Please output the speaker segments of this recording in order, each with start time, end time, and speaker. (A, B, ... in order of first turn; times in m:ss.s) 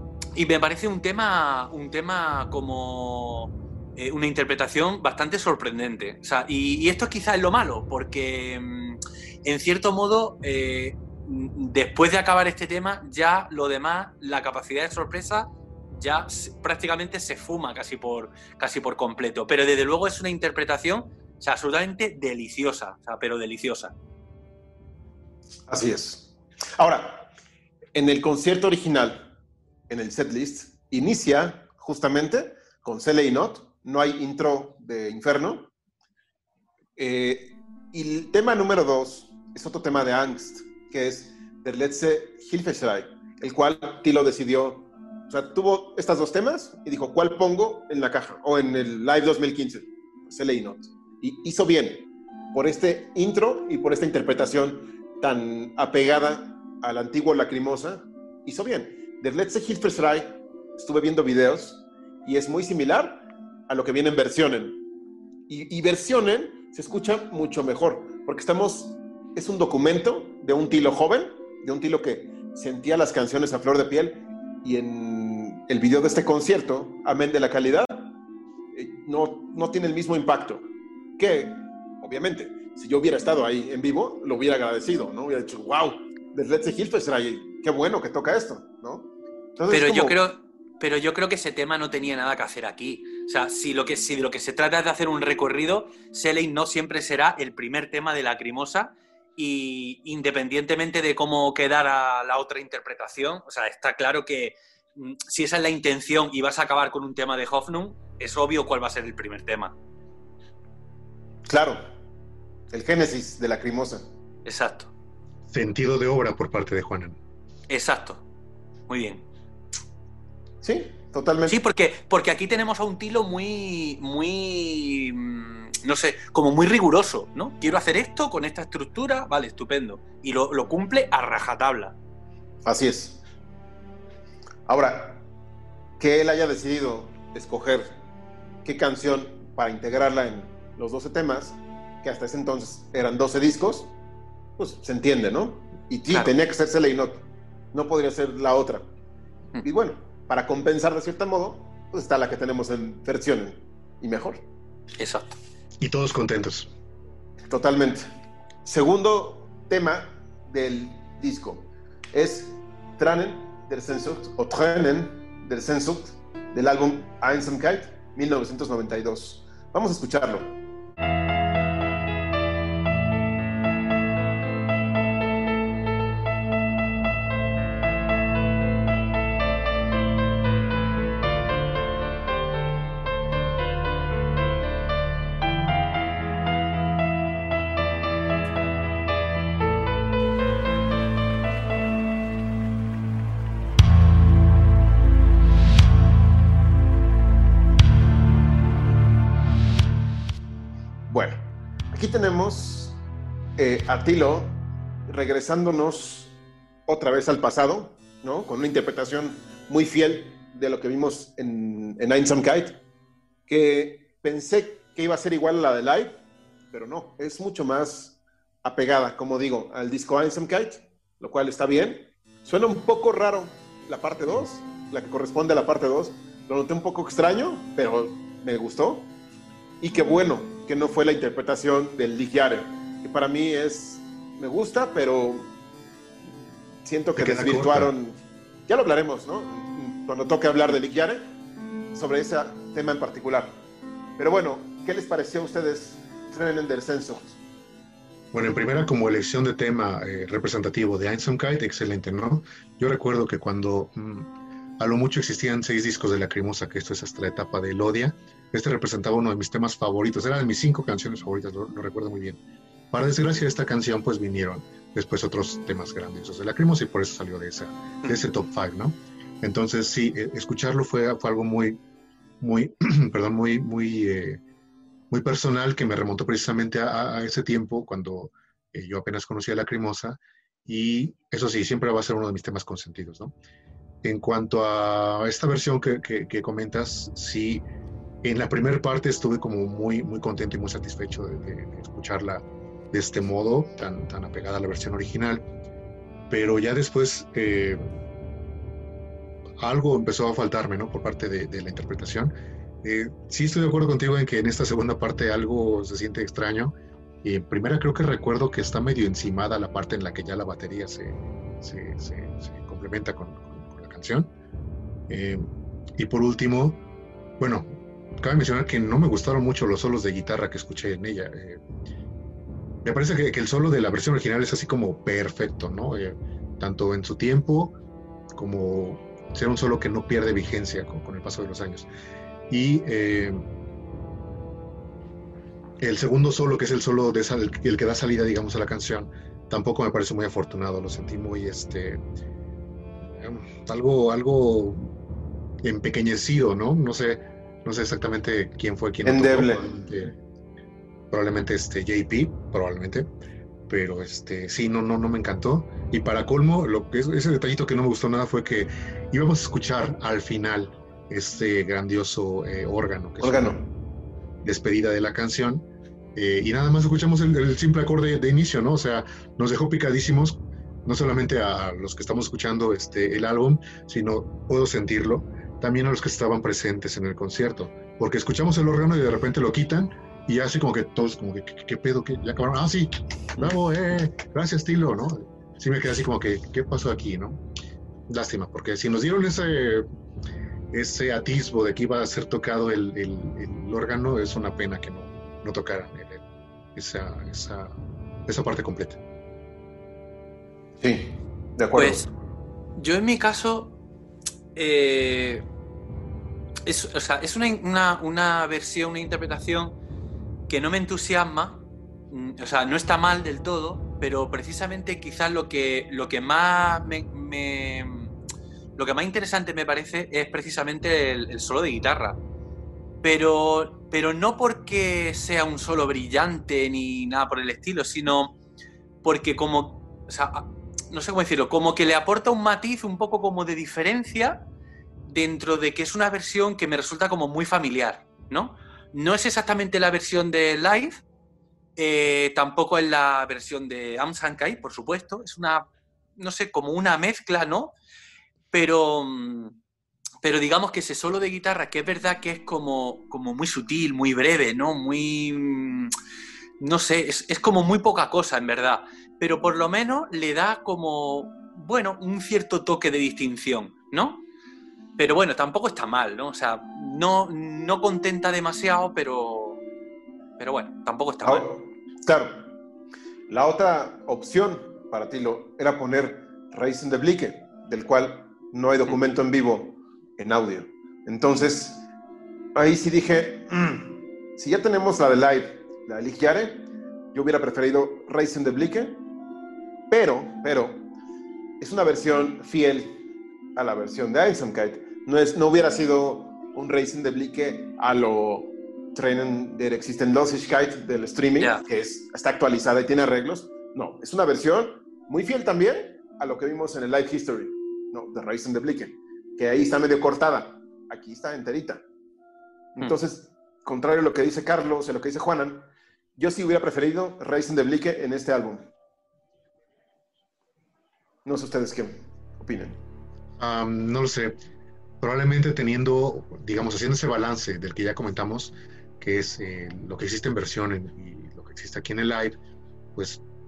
0:00.4-0:23.9 A
0:25.7-0:27.3 B
0:27.9-0:29.3 B
0:29.9-0:35.7 B
0:37.0-1:04.8 B
1:05.5-1:18.2 B
1:18.7-1:20.7 B
1:21.2-1:30.2 B
1:29.7-1:49.7 A
1:51.5-1:51.8 B
1:52.7-1:54.1 B
1:54.4-1:54.9 A
1:55.5-1:57.2 C
1:57.7-1:58.2 A
1:58.9-1:59.2 A
2:00.6-2:01.6 B
2:01.4-2:12.0 A
2:12.6-2:13.2 B
2:14.7-2:15.2 B
2:16.0-2:18.0 B
2:18.6-2:24.0 B
2:24.6-2:28.9 B
2:29.6-2:34.4 B
2:35.0-2:35.4 A
2:35.8-2:36.7 C
2:37.5-2:38.1 B
2:38.6-2:50.6 B
3:21.1-3:21.4 B
3:21.9-3:23.0 B
3:23.6-3:26.3 B
3:26.9-3:32.8 B
3:33.5-3:36.2 B
3:36.7-3:49.1 B
3:49.8-3:55.5 B
3:56.8-4:01.2 B
3:57.1-3:57.9 C
4:01.9-4:03.6 B
4:04.2-4:07.4 B
4:08.3-4:22.4 C
4:22.9-4:31.8 C
4:32.4-4:34.4 C
4:35.1-4:43.3 C
4:44.0-4:47.6 C
4:48.2-4:55.4 C
4:56.3-4:57.8 C
4:59.6-5:14.3 C
5:15.1-5:15.4 C
5:16.0-5:16.8 C
5:17.4-5:21.6 C
5:22.8-5:27.8 C
5:28.4-5:31.9 C
5:32.5-5:33.4 C
5:35.8-5:42.0 C
5:43.2-5:44.9 C
5:45.6-5:50.2 C
5:49.0-5:49.6 B
5:51.1-5:53.1 C
5:53.7-6:03.6 C
6:03.2-6:03.7 B
6:04.4-6:27.4 C
6:28.1-6:29.9 C
6:30.7-6:36.2 C
6:36.8-6:39.0 C
6:40.8-6:42.1 B
6:41.7-6:42.0 A
6:42.8-6:43.8 A
6:44.5-6:45.4 A
6:46.6-6:49.8 A
6:50.5-6:58.1 A
6:58.8-7:02.2 A
7:03.0-7:08.4 A
7:09.0-7:14.4 A
7:15.0-7:21.0 A
7:21.8-7:27.7 A
7:28.5-7:29.6 A
7:30.2-7:35.9 A
7:36.6-7:44.2 A
7:45.0-7:49.6 A
7:50.4-7:51.5 A
7:51.2-7:52.5 B
7:53.3-8:01.8 B
8:02.5-8:09.0 B
8:09.9-8:10.9 B
8:11.6-8:13.0 B
8:13.6-8:31.8 B
8:32.8-8:38.7 B
8:41.2-8:42.8 B
8:43.4-8:44.4 C
8:45.0-8:52.4 C
8:52.9-8:53.2 C